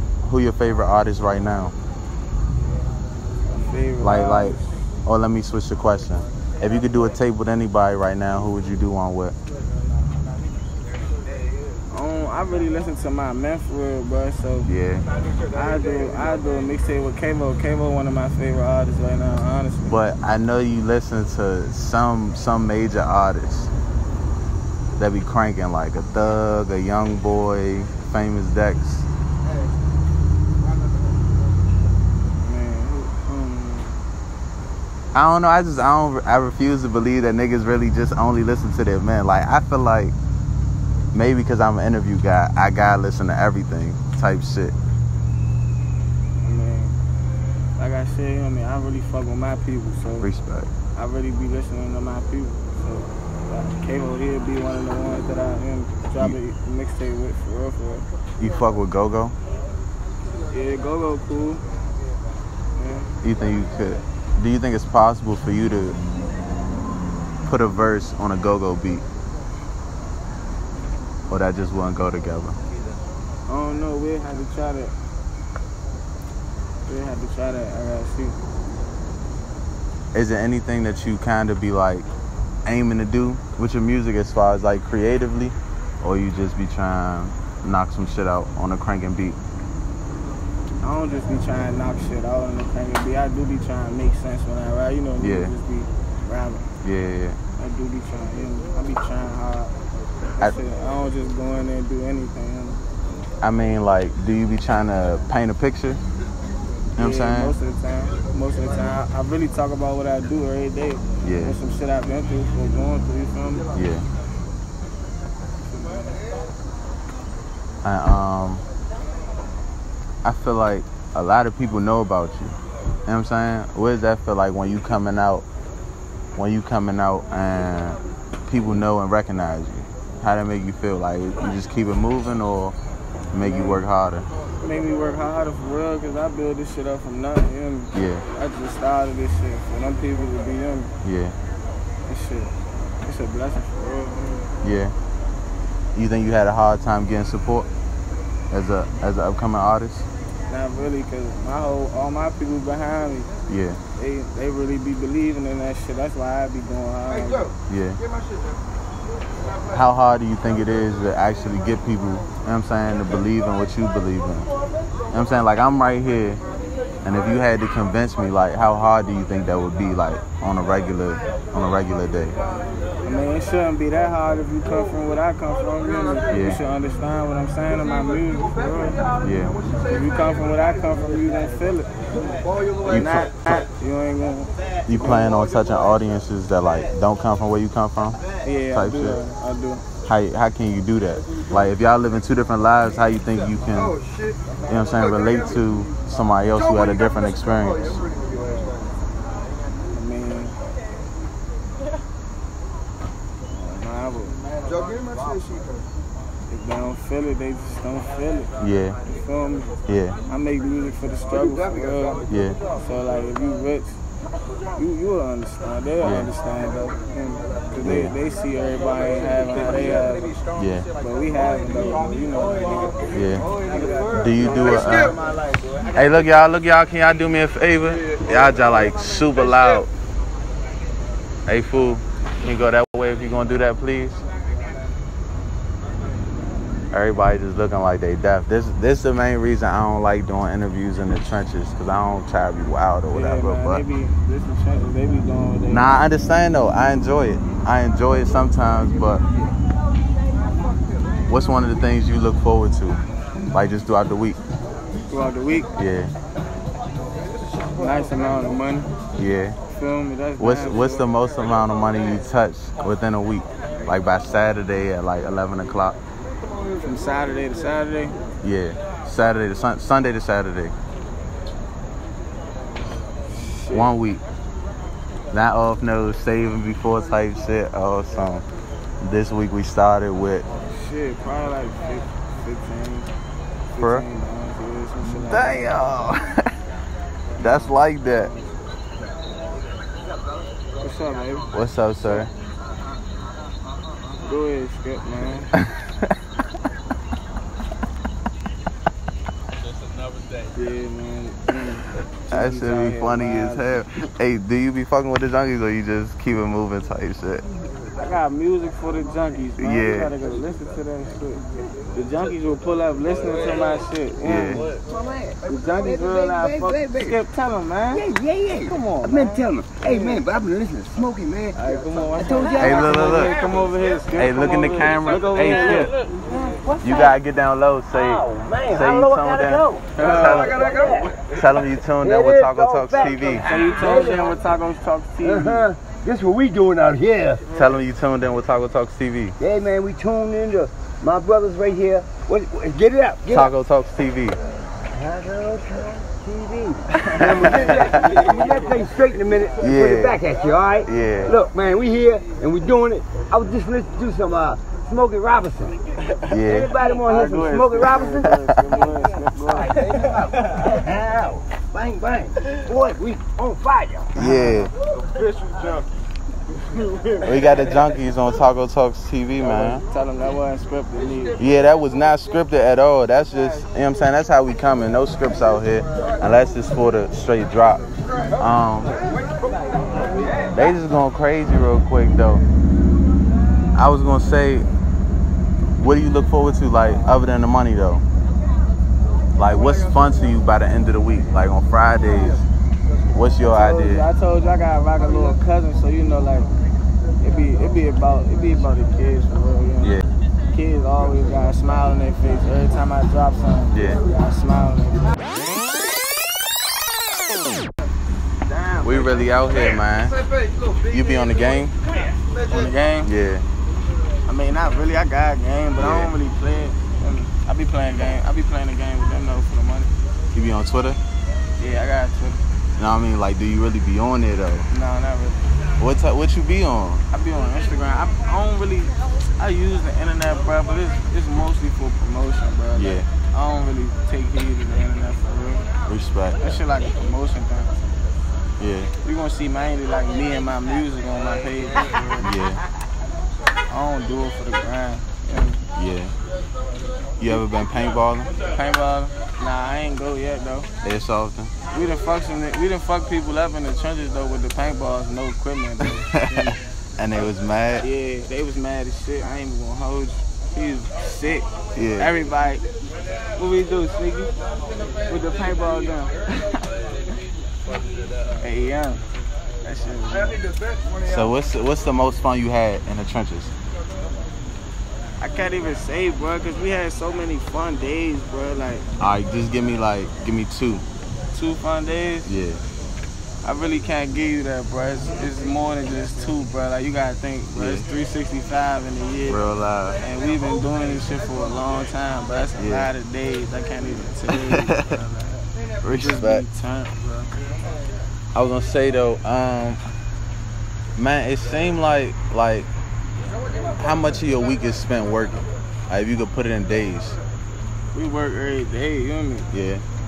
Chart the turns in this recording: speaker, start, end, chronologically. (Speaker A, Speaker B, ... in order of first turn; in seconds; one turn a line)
Speaker A: 0.2-1.8
Speaker B: 3.5-4.7
Speaker A: 4.0-9.4
Speaker B: 11.9-14.7
Speaker A: 14.7-15.1
Speaker B: 15.5-20.0
Speaker A: 19.9-23.7
Speaker A: 25.0-29.1
Speaker B: 32.4-34.0
Speaker A: 35.1-40.1
Speaker A: 41.1-44.8
Speaker B: 46.4-47.0
Speaker B: 47.8-50.3
Speaker A: 50.2-50.7
Speaker B: 51.0-58.1
Speaker A: 58.4-59.4
Speaker B: 60.5-61.6
Speaker B: 62.8-63.1
Speaker A: 63.2-66.0
Speaker A: 67.5-69.0
Speaker A: 71.3-72.6
Speaker B: 73.5-74.9
Speaker B: 76.9-78.4
Speaker A: 80.1-82.1
Speaker A: 82.7-89.4
Speaker B: 90.8-96.7
Speaker A: 95.2-95.5
Speaker A: 96.8-97.4
Speaker B: 97.6-99.7
Speaker B: 100.4-102.8
Speaker A: 103.4-106.0
Speaker A: 107.0-107.6
Speaker B: 107.0-113.7
Speaker A: 111.2-111.6
Speaker A: 113.7-114.0
Speaker B: 115.7-116.2
Speaker A: 117.8-118.6
Speaker A: 120.2-125.5
Speaker A: 126.3-132.8
Speaker A: 133.3-134.3
Speaker B: 133.4-133.8
Speaker B: 134.6-140.9
Speaker A: 137.9-138.2
Speaker A: 141.0-141.4
Speaker B: 142.1-144.5
Speaker A: 144.6-144.9
Speaker A: 145.9-147.7
Speaker A: 148.5-150.1
Speaker B: 150.5-153.3
Speaker A: 153.5-153.8
Speaker B: 154.0-157.5
Speaker A: 157.7-158.0
Speaker A: 159.7-164.5
Speaker A: 165.1-166.4
Speaker A: 167.0-172.4
Speaker B: 173.0-179.0
Speaker A: 176.3-176.6
Speaker A: 179.2-179.6
Speaker B: 179.9-181.9
Speaker A: 182.9-183.6
Speaker B: 182.9-185.3
Speaker A: 184.9-188.2
Speaker B: 188.4-189.8
Speaker A: 188.7-189.2
Speaker A: 190.1-194.0
Speaker A: 194.7-198.0
Speaker B: 199.9-200.6
Speaker B: 203.5-204.4
Speaker B: 206.5-208.5
Speaker A: 208.6-209.0
Speaker B: 209.1-209.7
Speaker A: 209.9-210.2
Speaker B: 210.3-212.2
Speaker A: 212.3-212.6
Speaker B: 212.8-214.0
Speaker B: 214.8-220.3
Speaker A: 216.0-216.3
Speaker A: 217.8-218.2
Speaker A: 220.6-220.9
Speaker B: 221.0-223.1
Speaker A: 223.1-223.5
Speaker B: 223.7-224.1
Speaker A: 224.2-225.2
Speaker A: 225.9-229.9
Speaker A: 231.5-234.2
Speaker A: 236.9-243.8
Speaker B: 243.1-245.9
Speaker A: 245.7-249.2
Speaker A: 251.3-253.0
Speaker A: 253.5-254.4
Speaker B: 255.1-255.7
Speaker A: 255.8-256.1
Speaker B: 257.7-258.9
Speaker A: 259.2-259.6
Speaker B: 259.7-261.1
Speaker A: 260.4-266.0
Speaker B: 266.8-268.1
Speaker A: 268.4-270.8
Speaker B: 273.3-273.9
Speaker A: 273.7-274.2
Speaker A: 275.3-278.4
Speaker A: 279.0-280.5
Speaker B: 280.7-283.1
Speaker B: 283.7-285.7
Speaker A: 283.8-284.1
Speaker A: 285.0-286.5
Speaker A: 287.4-288.3
Speaker B: 287.4-288.5
Speaker B: 290.8-291.5
Speaker A: 291.5-292.3
Speaker B: 294.2-295.5
Speaker A: 295.6-296.1
Speaker B: 300.6-303.8
Speaker A: 302.3-307.4
Speaker B: 308.0-314.7
Speaker A: 309.6-310.1
Speaker A: 314.2-314.6
Speaker C: 314.8-317.2
Speaker B: 315.4-318.1
Speaker C: 317.9-321.6
Speaker B: 318.6-320.2
Speaker B: 321.6-327.1
Speaker C: 322.2-323.4
Speaker A: 322.6-323.4
Speaker A: 324.1-325.9
Speaker A: 326.8-333.5
Speaker C: 327.9-331.2
Speaker B: 329.9-330.7
Speaker C: 332.0-334.3
Speaker B: 333.4-335.7
Speaker C: 335.2-337.4
Speaker A: 337.5-339.4
Speaker C: 339.4-343.5
Speaker A: 343.3-344.4
Speaker C: 344.9-355.8
Speaker B: 347.0-348.0
Speaker A: 347.3-348.3
Speaker A: 349.6-350.2
Speaker A: 350.8-351.4
Speaker A: 356.3-356.7
Speaker C: 356.3-364.2
Speaker B: 356.8-359.8
Speaker A: 364.1-364.7
Speaker B: 364.2-364.7
Speaker A: 367.2-369.8
Speaker B: 369.6-371.4
Speaker A: 371.4-379.0
Speaker B: 379.9-380.4
Speaker A: 380.5-382.4
Speaker A: 383.8-384.7
Speaker A: 385.8-388.0
Speaker A: 389.4-392.4
Speaker A: 393.1-394.1
Speaker B: 393.5-396.5
Speaker B: 397.2-405.1
Speaker A: 403.7-404.0
Speaker B: 408.5-409.2
Speaker A: 408.8-410.2
Speaker A: 410.9-411.8
Speaker B: 412.5-413.1
Speaker A: 413.0-413.4
Speaker B: 414.3-419.9
Speaker A: 415.8-416.1
Speaker A: 420.3-421.0
Speaker B: 421.6-422.4
Speaker A: 422.8-424.7
Speaker B: 424.7-425.4
Speaker A: 425.8-427.0
Speaker B: 427.1-435.7
Speaker A: 432.8-433.1
Speaker A: 435.9-436.6
Speaker B: 436.4-437.8
Speaker A: 438.6-438.9
Speaker B: 439.0-442.3
Speaker A: 442.2-442.6
Speaker B: 443.7-445.6
Speaker A: 445.8-446.1
Speaker A: 447.2-448.3
Speaker B: 448.4-450.7
Speaker A: 450.8-451.5
Speaker B: 451.7-456.6
Speaker A: 455.8-457.9
Speaker B: 457.8-462.6
Speaker A: 461.8-462.1
Speaker B: 463.4-464.3
Speaker B: 465.1-466.7
Speaker B: 468.4-469.0
Speaker B: 469.6-470.4
Speaker A: 471.1-473.5
Speaker B: 475.2-478.9
Speaker A: 479.0-480.9
Speaker B: 481.3-482.3
Speaker A: 482.2-482.6
Speaker B: 483.4-489.4
Speaker A: 487.6-487.9
Speaker A: 489.3-490.0
Speaker B: 490.0-497.3
Speaker A: 492.6-492.9
Speaker A: 494.3-494.9
Speaker A: 495.8-496.4
Speaker A: 498.4-499.8
Speaker A: 501.0-502.7
Speaker A: 503.8-507.2
Speaker B: 507.9-509.5
Speaker A: 509.5-509.8